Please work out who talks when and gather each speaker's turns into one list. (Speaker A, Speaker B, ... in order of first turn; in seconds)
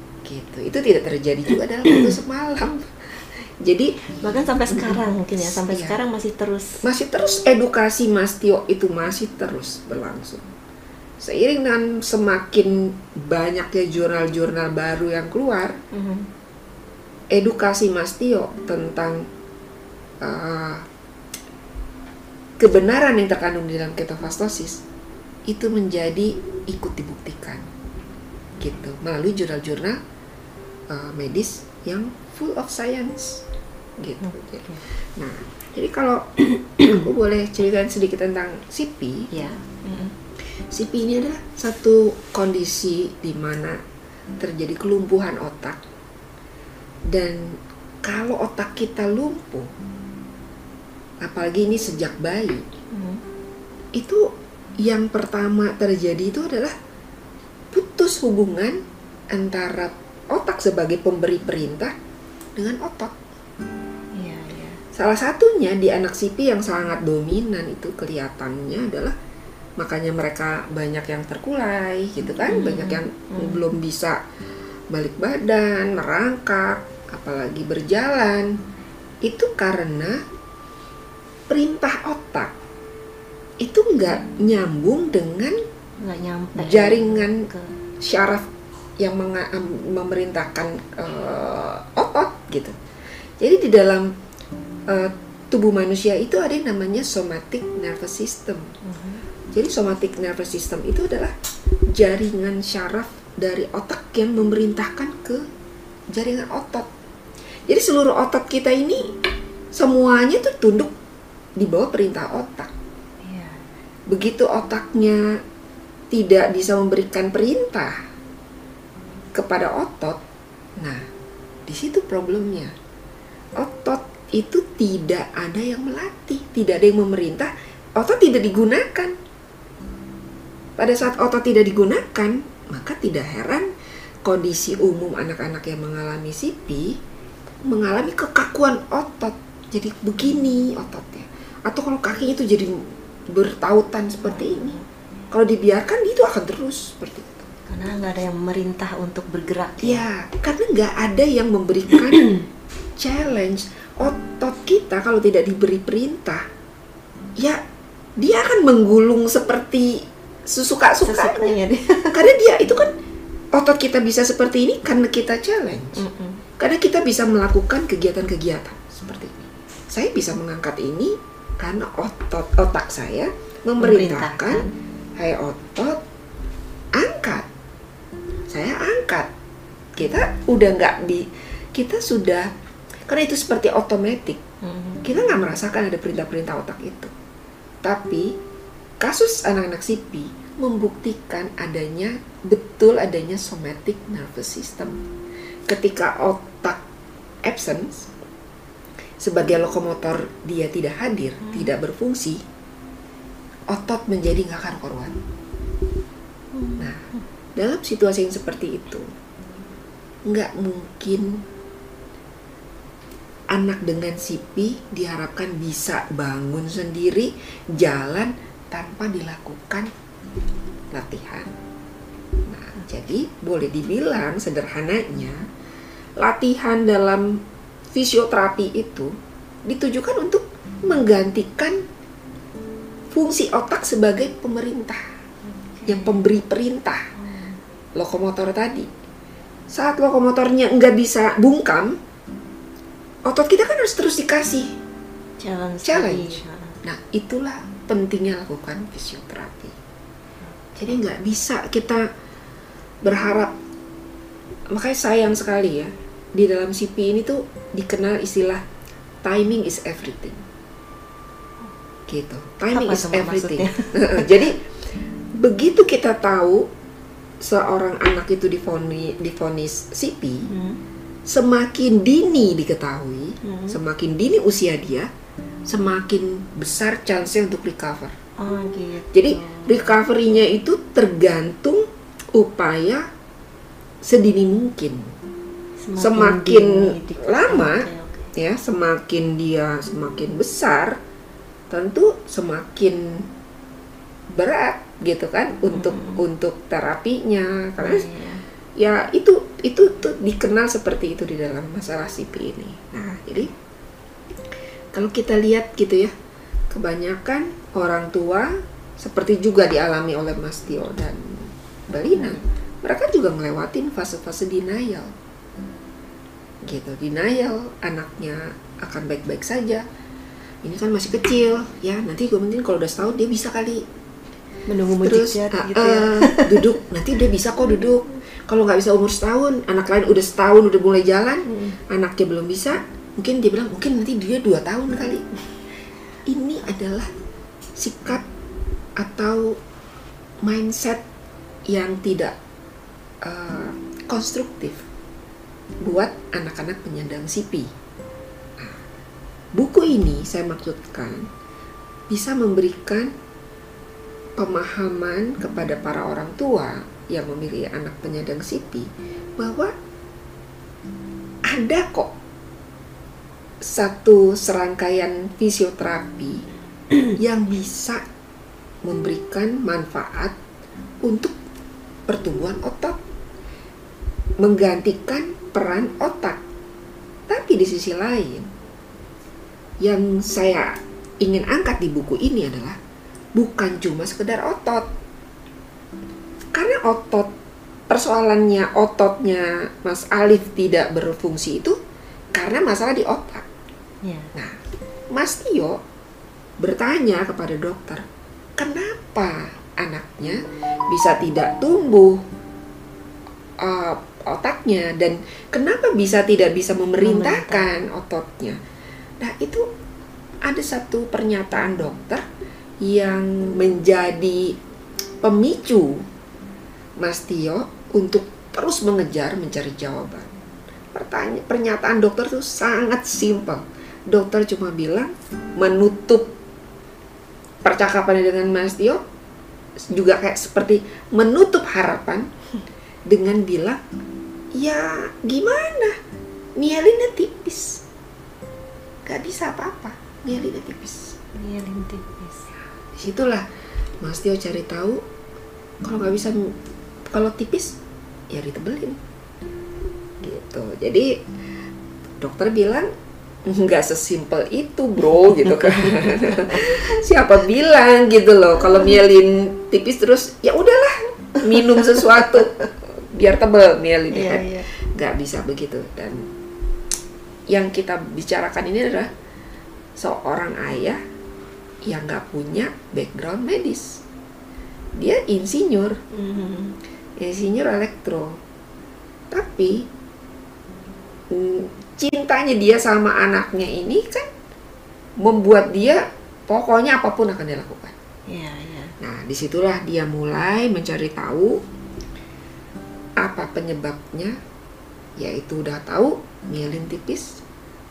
Speaker A: 0.2-4.0, 4.7-6.0, 6.8-10.4, 11.2-15.8, 17.3-19.3, 20.2-20.9, 22.6-24.8, 25.5-27.7, 28.6-30.0, 30.9-33.4, 34.0-39.3, 40.6-43.8, 44.4-45.8, 47.1-49.7, 51.2-52.6, 53.9-54.3, 54.8-56.7, 57.7-61.9, 62.5-63.1, 64.9-69.1, 69.8-74.2, 74.9-78.5, 79.2-80.2, 81.5-82.5, 83.6-85.6, 86.5-87.5, 88.0-92.8, 93.4-94.1, 94.9-98.7, 99.5-101.3, 101.9-105.4, 106.1-106.9, 107.7-109.1, 109.7-110.9, 111.6-112.7, 114.1-115.2, 116.1-118.0, 119.3-120.2, 120.8-121.0, 121.7-122.7, 123.6-129.2, 130.8-133.7, 134.2-137.0, 137.7-144.7, 145.3-147.5, 149.8-152.3, 153.0-156.5, 158.2-161.6, 162.1-162.9, 163.5-166.0, 166.6-174.7, 175.2-176.0, 176.9-177.5, 178.5-179.3, 179.9-182.5, 183.1-184.4, 185.0-187.1, 187.8-188.3, 189.0-195.0, 195.7-196.8, 197.4-198.1, 199.2-202.4, 203.7-205.2, 206.8-207.0, 207.6-209.1, 210.3-211.4, 213.5-219.9, 220.9-221.5, 222.4-225.4, 226.2-229.1, 229.7-231.8, 233.1-235.1, 235.9-237.1, 237.9-238.9, 239.7-242.0, 243.2-244.8, 245.8-249.7, 250.8-252.1, 253.0-253.5, 254.7-258.6, 259.2-260.4, 262.1-264.6, 265.3-266.7, 267.4-270.5, 271.2-275.1, 275.7-278.1, 279.1-283.1, 284.0-285.1, 285.9-291.0, 291.7-293.3, 294.3-298.1, 298.8-303.5, 304.9-306.1, 306.7-315.1, 316.6-319.9, 320.6-323.8, 325.0-335.2, 336.2-337.1, 337.8-338.2, 339.0-339.6, 340.4-341.0, 341.7-342.4, 343.2-344.8, 345.8-347.7, 349.5-351.3, 352.1-353.1, 354.4-359.7, 361.4-362.1, 363.6-366.4, 367.1-368.0, 368.8-370.4, 371.0-371.3, 372.1-373.0, 374.4-376.4, 377.3-378.5, 379.8-382.8, 383.4-384.9, 386.5-387.3, 387.9-391.8, 392.3-393.4, 395.1-395.8, 396.6-398.0, 398.6-402.2, 403.6-408.6, 409.2-409.7, 410.4-412.2, 412.8-414.6, 415.2-416.1, 417.0-420.3, 420.9-426.3, 427.6-429.0, 429.8-432.3, 433.1-433.8, 434.5-436.0, 436.6-437.8, 439.0-441.1, 442.9-443.4, 444.0-445.0, 445.8-446.6, 447.1-447.8, 448.3-449.0, 450.2-451.2, 452.2-452.9, 453.4-466.3, 467.5-469.1, 470.0-471.0, 471.8-474.0, 474.9-476.0, 477.2-478.4, 479.3-479.9, 481.3-484.3, 485.2-487.9, 489.0-491.6, 493.2-494.4, 495.2-497.4
Speaker B: 4.2-6.8, 15.9-16.3, 34.2-34.8, 39.3-40.1, 52.9-53.2, 64.1-64.8, 72.5-73.6, 86.0-87.7, 98.8-99.2, 113.2-113.6, 144.2-144.8, 147.7-150.0, 161.0-162.2, 166.0-166.4, 173.8-174.7, 184.6-185.0, 206.5-207.2, 235.5-236.2, 237.2-237.6, 245.4-246.8, 262.7-264.4, 270.5-270.8, 273.4-273.8, 278.4-279.9, 285.8-288.3, 295.7-296.2, 297.8-298.4, 324.7-326.7, 331.5-331.8, 394.0-394.3, 407.0-407.7, 441.3-442.5, 464.1-464.7, 476.1-476.8, 488.3-488.9